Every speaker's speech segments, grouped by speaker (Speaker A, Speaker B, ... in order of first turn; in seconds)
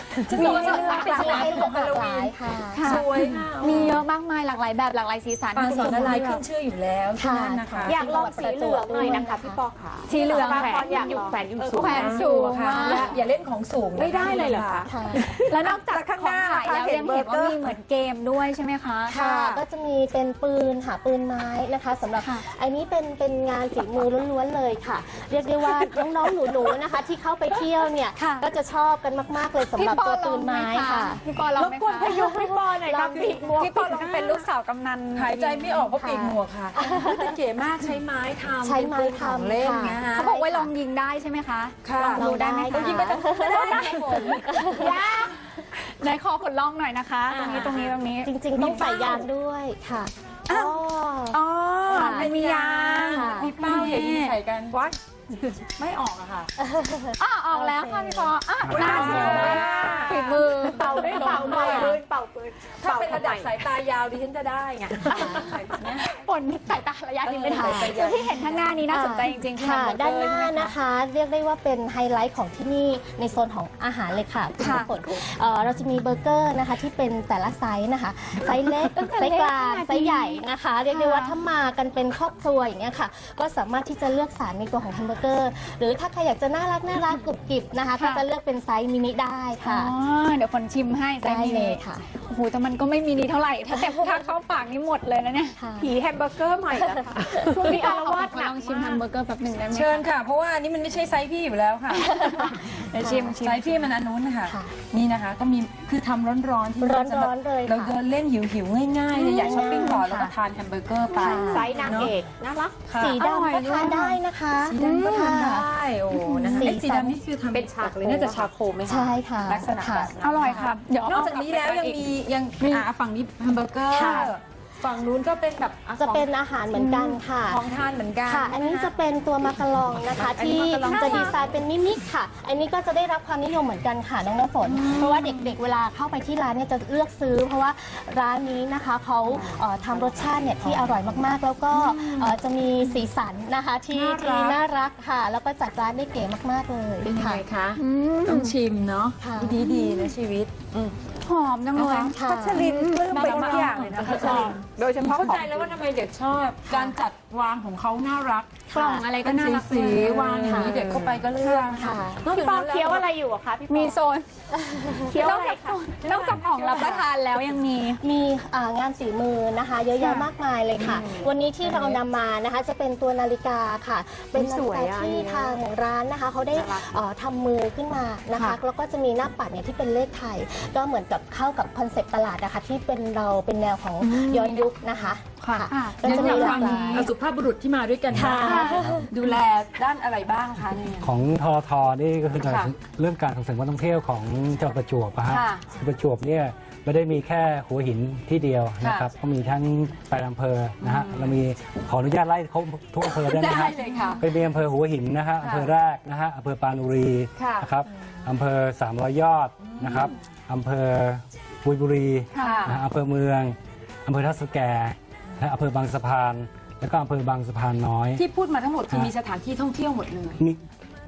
Speaker A: 0.2-4.0, 5.5-8.0, 11.8-14.9, 33.1-34.5, 35.1-40.3, 41.8-45.3, 47.4-47.8, 51.8-54.8, 55.8-56.5, 58.7-62.0, 62.8-66.1, 67.2-68.7, 99.7-102.1, 103.3-112.2, 112.9-113.2, 114.6-126.3, 127.5-129.0, 130.1-131.5, 134.7-135.5, 139.3-141.0, 141.7-142.3, 143.9-144.6, 147.0-151.0, 151.8-158.6, 159.2-163.1, 166.0-167.1, 170.8-172.0, 184.0-184.7, 185.4-191.1, 192.4-192.7, 195.3-195.7, 198.8-199.1, 200.8-201.4, 203.0-204.3, 205.4-205.7, 207.4-207.7, 209.6-210.2, 212.4-212.8, 218.2-220.4
Speaker B: 0.3-3.0, 5.7-6.2, 7.2-9.6, 14.2-15.3, 19.1-31.2, 32.3-33.3, 35.9-37.4, 38.6-40.7, 42.0-45.1, 47.3-52.4, 53.1-53.5, 56.6-58.3, 59.0-59.7, 61.0-62.0, 65.1-65.4, 67.5-67.9, 68.9-89.9, 91.2-92.0, 95.6-96.0, 96.8-97.9, 102.0-103.4, 104.5-104.7, 106.8-108.0, 109.2-110.1, 111.1-112.0, 112.9-117.2, 118.8-120.7, 123.9-124.3, 126.0-127.6, 128.2-147.4, 149.2-149.6, 152.1-154.2, 158.7-159.1, 160.4-160.8, 161.7-162.3, 164.7-165.1, 168.0-187.1, 188.1-189.1
Speaker C: 0.3-1.7, 2.7-6.4, 10.1-13.1, 15.5-19.2, 28.2-28.5, 29.8-32.6, 33.1-35.9, 40.1-49.3, 50.5-50.8, 51.3-54.3, 57.2-61.9, 65.1-70.7, 74.6-75.2, 78.8-81.3, 88.0-88.2, 89.6-95.6, 97.3-100.0, 101.9-103.7, 109.2-110.3, 113.2-114.2, 114.8-115.1, 120.2-122.1, 122.6-122.9, 124.0-124.3, 126.7-127.2, 130.8-131.4, 147.8-148.6, 149.6-150.1, 151.2-154.6, 158.7-160.7, 161.4-162.6, 163.7-164.3, 165.1-168.0, 185.7-187.1, 188.4-188.8, 212.3-212.7
Speaker D: 3.2-3.7, 7.8-13.2, 14.0-17.6, 19.1-19.6, 31.6-34.1, 44.9-45.3, 54.7-55.6, 58.8-63.6, 95.8-99.0, 111.3-112.8, 117.5-118.5, 153.1-153.4, 153.9-155.7, 160.7-161.1, 162.3-164.0, 165.1-165.8, 174.3-175.6, 176.5-177.0
Speaker E: 58.6-59.5, 188.1-189.0, 191.0-218.2